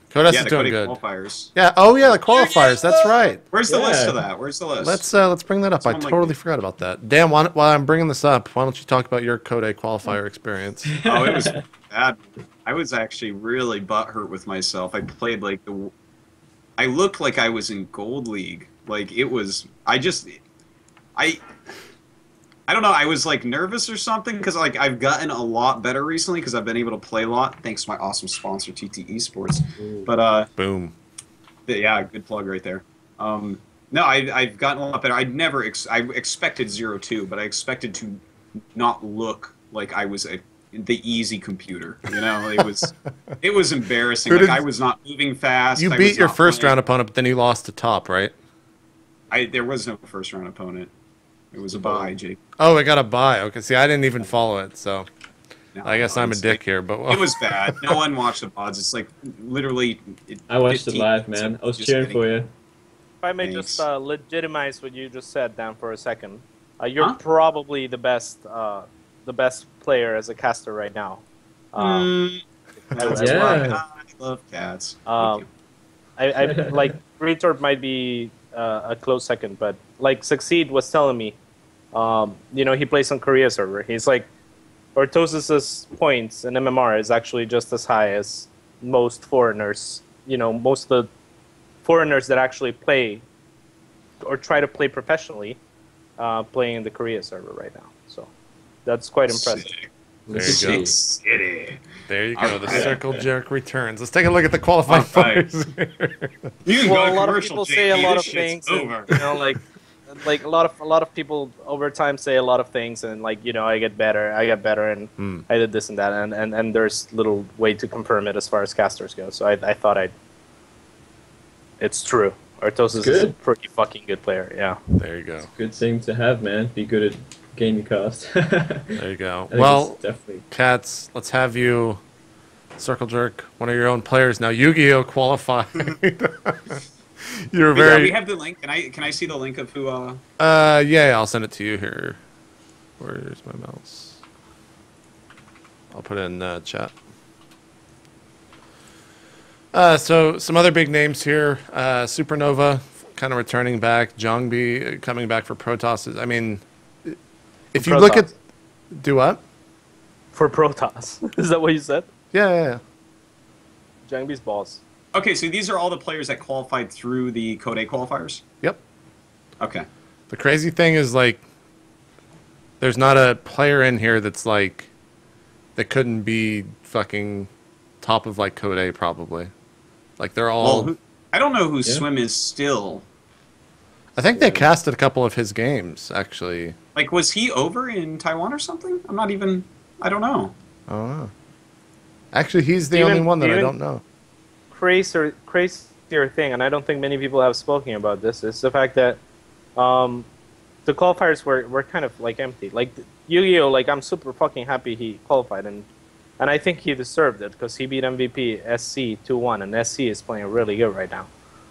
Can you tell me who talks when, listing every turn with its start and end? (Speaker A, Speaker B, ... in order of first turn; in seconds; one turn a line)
Speaker A: 0.1-1.0
Speaker B: 0.3-1.5
Speaker A: 1.5-3.4
Speaker B: 2.3-5.0
Speaker C: 3.7-4.2
Speaker A: 4.8-10.9
Speaker B: 5.8-6.3
Speaker C: 10.9-11.6
Speaker B: 11.0-15.9
Speaker B: 16.8-20.4
Speaker B: 21.1-21.4
Speaker B: 22.7-30.5
Speaker A: 30.6-30.9
Speaker B: 31.7-38.2
Speaker B: 38.7-46.8
Speaker A: 44.2-44.6
Speaker A: 45.8-48.3
Speaker B: 49.3-50.9
Speaker B: 51.5-52.4
Speaker C: 51.7-52.1
Speaker A: 52.6-55.1
Speaker B: 55.7-62.2
Speaker A: 55.8-58.0
Speaker C: 60.5-62.5
Speaker D: 63.2-72.1
Speaker B: 63.4-63.8
Speaker B: 71.8-75.5
Speaker D: 72.9-73.7
Speaker C: 73.0-73.8
Speaker D: 75.1-75.4
Speaker D: 76.2-81.4
Speaker C: 76.4-76.8
Speaker D: 81.9-84.3
Speaker D: 84.9-91.1
Speaker D: 91.8-93.2
Speaker D: 94.2-95.6
Speaker D: 96.2-98.3
Speaker D: 98.8-99.7
Speaker B: 99.3-99.9
Speaker C: 100.3-100.9
Speaker A: 100.3-100.9
Speaker B: 100.4-101.8
Speaker A: 102.1-106.5
Speaker B: 102.3-103.2
Speaker C: 102.7-103.0
Speaker B: 104.9-105.4
Speaker B: 106.6-109.3
Speaker D: 106.8-120.1
Speaker A: 115.2-115.4
Speaker D: 121.8-124.8
Speaker C: 123.0-123.3
Speaker A: 125.0-125.5
Speaker C: 125.4-130.4
Speaker A: 128.9-132.0
Speaker A: 132.8-138.1
Speaker B: 137.7-140.2
Speaker A: 140.4-142.2
Speaker A: 143.0-144.2
Speaker A: 145.9-146.9
Speaker A: 149.7-157.2
Speaker A: 157.7-158.3
Speaker D: 157.8-158.3
Speaker A: 158.9-159.4
Speaker D: 160.3-162.1
Speaker A: 162.3-162.8
Speaker D: 164.1-164.8
Speaker B: 165.1-168.4
Speaker B: 169.6-169.9
Speaker A: 170.3-171.4
Speaker A: 172.8-174.9
Speaker A: 175.8-177.5
Speaker A: 178.0-179.5
Speaker A: 180.2-180.9
Speaker B: 180.6-183.0
Speaker A: 184.2-186.8
Speaker C: 184.3-184.7
Speaker B: 186.9-190.5
Speaker A: 190.9-191.3
Speaker A: 192.3-194.0
Speaker D: 192.9-193.7
Speaker D: 194.7-199.2
Speaker D: 199.8-200.3
Speaker D: 200.8-205.9
Speaker D: 206.4-211.3